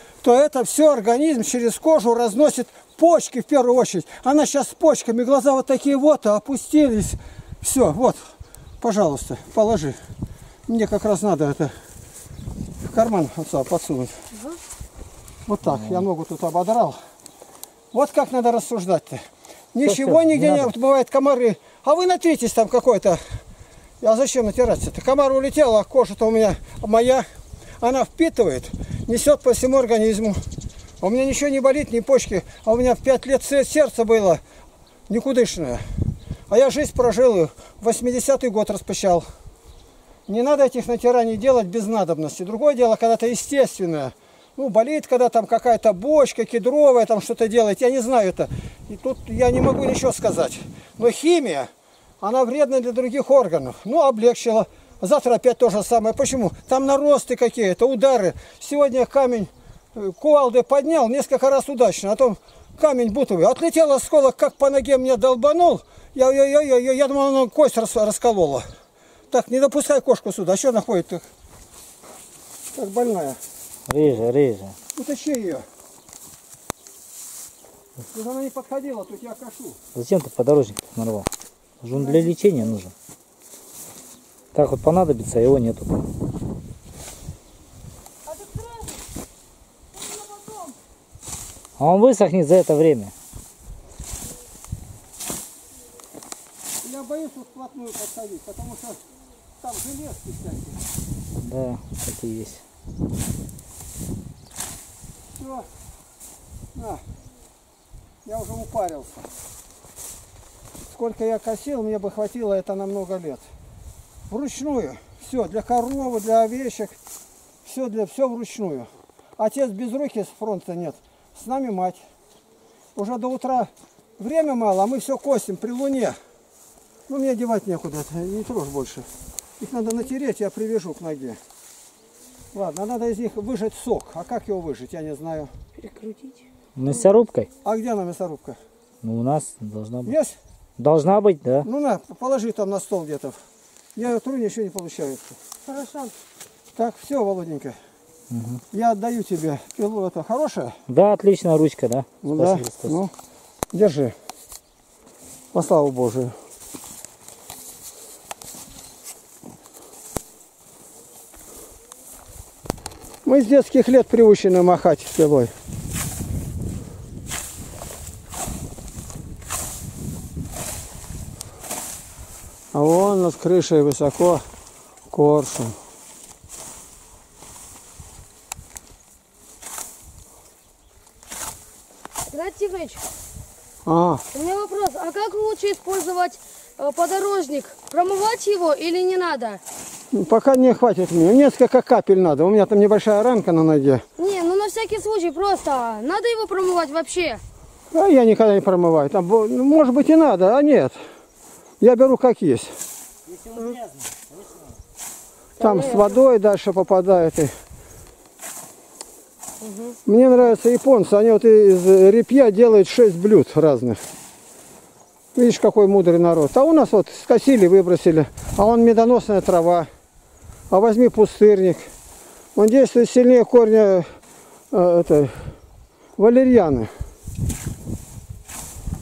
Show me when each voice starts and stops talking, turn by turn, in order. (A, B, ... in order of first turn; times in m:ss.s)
0:00.2-0:08.3 A
0:08.8-0:10.0 A
0:10.7-0:11.7 A
0:12.8-0:14.2 A
0:15.5-0:17.0 A
0:15.7-0:16.1 B
0:17.9-0:23.2 A
0:19.8-0:20.7 B
0:24.0-0:27.3 A
0:27.8-0:30.4 A
0:31.0-0:34.4 A
0:35.1-0:35.8 A
0:36.5-0:39.3 A
0:40.3-0:51.7 A
0:52.2-1:08.6 A
1:09.3-1:11.3 A
1:12.7-1:13.4 A
1:13.9-1:14.8 B
1:15.0-1:15.6 A
1:18.1-1:19.8 A
1:20.0-1:21.3 B
1:21.8-1:22.9 B
1:22.0-1:22.6 A
1:24.5-1:26.1 B
1:30.0-1:30.7 A
1:31.8-1:33.1 B
1:36.8-1:39.0 A
1:39.6-1:40.8 A
1:41.4-1:42.6 B
1:45.4-1:45.7 A
1:46.8-1:47.0 A
1:48.2-1:49.3 A
1:50.9-1:53.4 A
1:54.3-1:57.0 A
1:57.6-2:02.0 A
2:03.0-2:06.2 A
2:07.1-2:09.1 A
2:09.6-2:11.4 A
2:12.5-2:15.5 A
2:15.8-2:16.4 C
2:16.8-2:17.5 B
2:17.6-2:18.6 A
2:19.0-2:20.1 B
2:20.0-2:20.4 A
2:20.8-2:21.7 B
2:21.6-2:23.4 A
2:24.0-2:25.4 A
2:25.7-2:26.1 C
2:26.8-2:27.8 A
2:28.3-2:28.6 B
2:28.7-2:30.8 A
2:30.9-2:33.0 B
2:32.2-2:33.1 A
2:33.7-2:34.2 A
2:35.5-2:36.4 A
2:43.2-2:45.5 A
2:52.7-2:54.4 A
2:55.1-2:55.8 A
3:02.3-3:03.0 C
3:03.8-3:04.2 A
3:04.3-3:09.6 C
3:10.1-3:14.0 A
3:14.2-3:17.4 C
3:17.9-3:21.0 A
3:21.8-3:22.7 A
3:23.3-3:24.7 B
3:25.6-3:26.2 C
3:25.6-3:27.5 A
3:29.6-3:30.0 C
3:30.1-3:34.0 A
3:35.4-3:39.9 A
3:40.7-3:41.9 A
3:42.6-3:44.1 A
3:44.7-3:45.5 A
3:46.2-3:46.9 A